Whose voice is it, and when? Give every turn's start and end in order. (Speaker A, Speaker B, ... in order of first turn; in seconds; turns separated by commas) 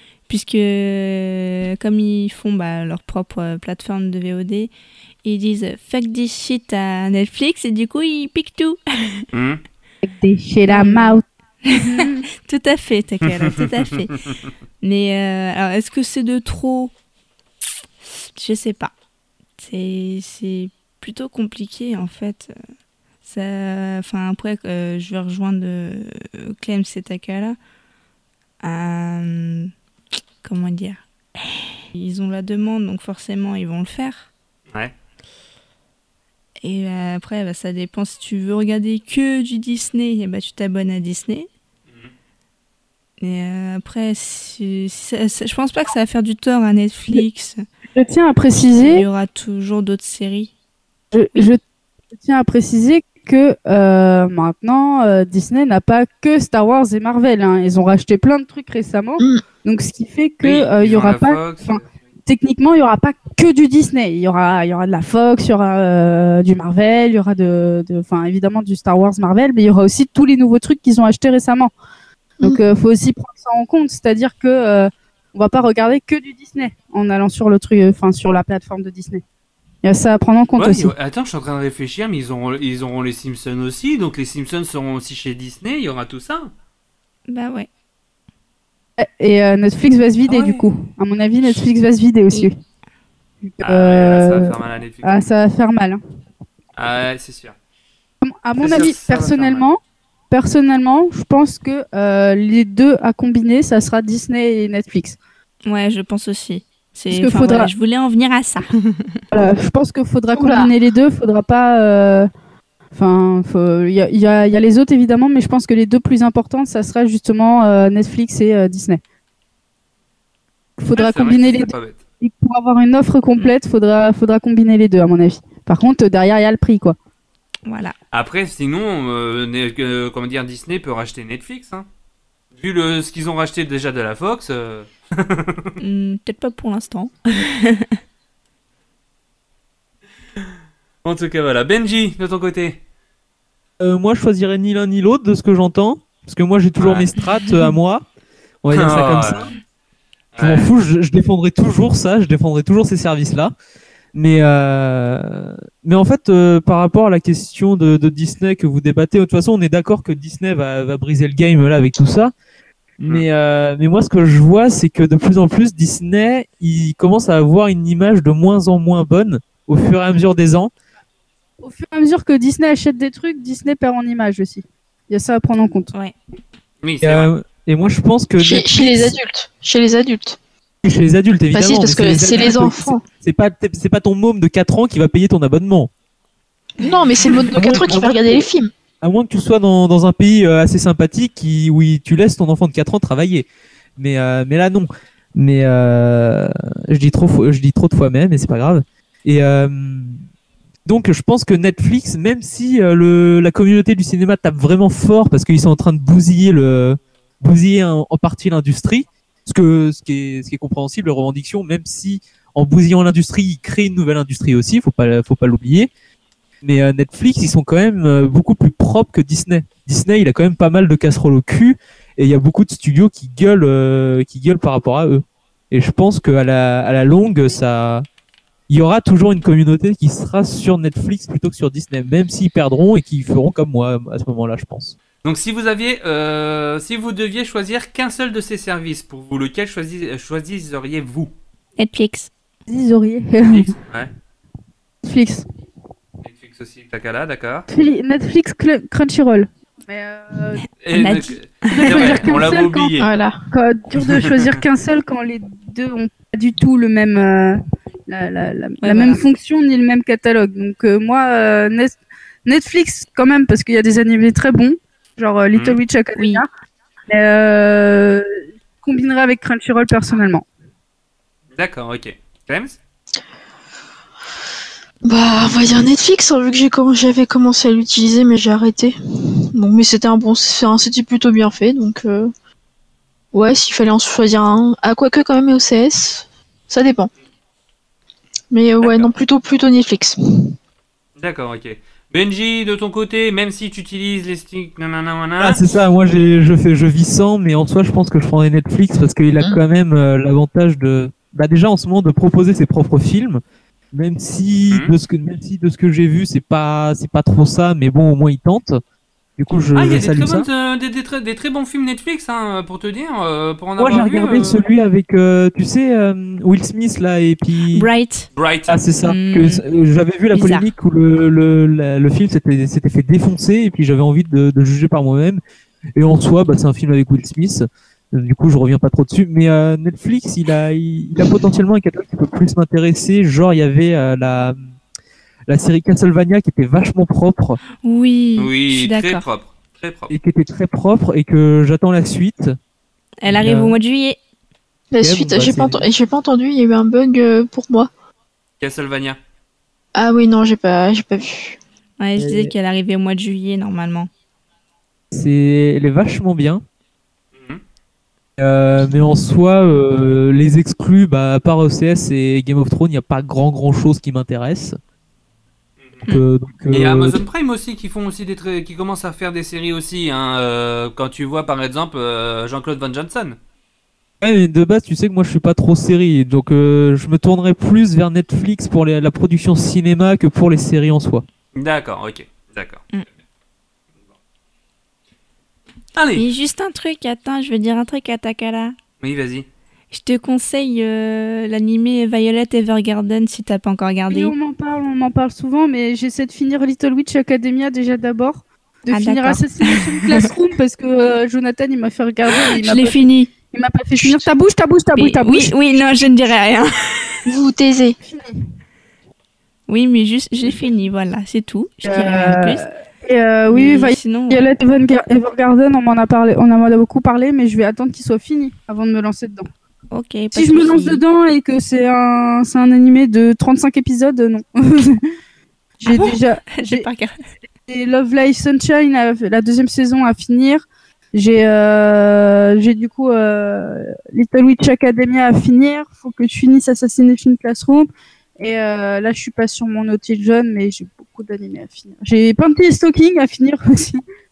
Speaker A: 0.3-4.7, Speaker A: 5.2-9.2, Speaker B: 9.3-9.6, Speaker C: 10.0-11.2, Speaker A: 10.7-14.1, Speaker C: 11.8-12.2, Speaker B: 13.3-14.0, Speaker A: 14.8-16.9, Speaker A: 18.4-18.9, Speaker A: 19.6-22.5, Speaker A: 23.2-27.6, Speaker A: 28.6-29.7, Speaker A: 30.4-34.3, Speaker A: 36.6-41.5, Speaker A: 43.2-47.6, Speaker C: 48.0-49.1, Speaker A: 48.8-50.5, Speaker C: 51.1-51.6, Speaker C: 52.2-71.7, Speaker B: 60.4-61.9, Speaker C: 72.4-79.2, Speaker C: 79.8-80.9, Speaker B: 80.6-86.5, Speaker A: 87.3-87.7, Speaker C: 89.0-92.5, Speaker B: 90.3-90.7, Speaker C: 93.5-96.0, Speaker B: 93.6-95.3, Speaker B: 96.8-97.5, Speaker C: 98.2-99.8, Speaker B: 98.6-99.7, Speaker C: 100.3-105.2, Speaker A: 105.7-109.2, Speaker C: 107.1-107.7, Speaker C: 109.3-112.3, Speaker D: 110.4-110.7, Speaker C: 113.0-119.0, Speaker C: 120.8-127.0, Speaker B: 121.0-122.0, Speaker A: 127.7-127.9, Speaker B: 128.1-131.9, Speaker B: 132.5-135.7, Speaker A: 135.8-137.9, Speaker B: 141.1-142.8, Speaker E: 143.8-148.1, Speaker B: 146.8-147.1, Speaker E: 148.6-149.5, Speaker B: 148.7-149.5, Speaker B: 150.3-150.7, Speaker E: 150.4-153.5, Speaker E: 154.1-162.3, Speaker E: 163.0-170.7, Speaker C: 171.6-175.9, Speaker B: 176.8-177.3, Speaker E: 177.0-179.2, Speaker D: 178.4-180.4, Speaker E: 180.8-185.9, Speaker D: 181.5-183.0, Speaker A: 186.8-187.5, Speaker D: 186.8-188.7, Speaker E: 187.5-188.5, Speaker E: 189.0-193.5, Speaker E: 194.0-200.2, Speaker E: 200.8-215.9, Speaker E: 216.6-228.1, Speaker E: 228.7-234.9, Speaker B: 235.2-241.3, Speaker A: 241.8-242.3, Speaker C: 242.7-243.8, Speaker B: 243.5-244.1, Speaker C: 245.0-245.4, Speaker B: 246.2-247.7, Speaker C: 247.7-250.6, Speaker B: 250.8-253.1, Speaker A: 250.9-252.4, Speaker C: 251.7-252.9, Speaker D: 253.0-253.4, Speaker C: 253.5-257.6, Speaker B: 254.0-254.3, Speaker C: 258.1-266.5, Speaker A: 258.8-259.2, Speaker B: 265.5-265.8, Speaker A: 266.2-266.4, Speaker C: 267.1-270.5, Speaker B: 271.6-272.8, Speaker D: 275.1-278.9, Speaker D: 279.5-282.3, Speaker D: 283.3-287.1, Speaker D: 288.5-290.6, Speaker B: 288.8-289.1, Speaker B: 291.2-295.6, Speaker E: 295.4-303.4, Speaker E: 303.9-308.8, Speaker E: 309.4-310.5, Speaker B: 309.7-314.6, Speaker E: 313.8-317.9, Speaker A: 317.7-318.3, Speaker B: 318.4-318.8, Speaker E: 318.7-325.4, Speaker A: 319.1-319.6, Speaker A: 320.3-320.7, Speaker E: 326.0-334.6, Speaker E: 335.5-337.6, Speaker A: 337.8-339.3, Speaker B: 338.4-340.1, Speaker E: 340.1-342.6, Speaker A: 343.2-344.2, Speaker E: 343.3-343.8, Speaker D: 344.9-347.9, Speaker E: 345.0-345.9, Speaker B: 348.6-349.2, Speaker D: 349.9-351.6, Speaker A: 352.0-354.1, Speaker E: 352.2-352.5, Speaker E: 355.1-356.6, Speaker B: 357.4-357.6, Speaker E: 358.4-364.8, Speaker E: 366.1-367.2, Speaker B: 366.7-373.4, Speaker E: 374.2-381.2, Speaker B: 381.6-382.9, Speaker B: 386.0-386.3, Speaker A: 386.2-388.8, Speaker B: 389.0-389.5, Speaker A: 389.9-394.3, Speaker C: 394.1-405.5, Speaker A: 398.9-400.3, Speaker A: 402.3-403.3, Speaker A: 404.0-404.3, Speaker A: 405.0-407.2, Speaker D: 407.3-408.0, Speaker C: 408.0-408.4, Speaker A: 409.7-412.6, Speaker C: 411.8-419.5, Speaker A: 413.5-414.4, Speaker A: 419.9-421.0, Speaker C: 420.3-425.0, Speaker C: 425.8-426.9, Speaker A: 425.9-427.2, Speaker C: 427.7-437.9, Speaker C: 438.4-444.0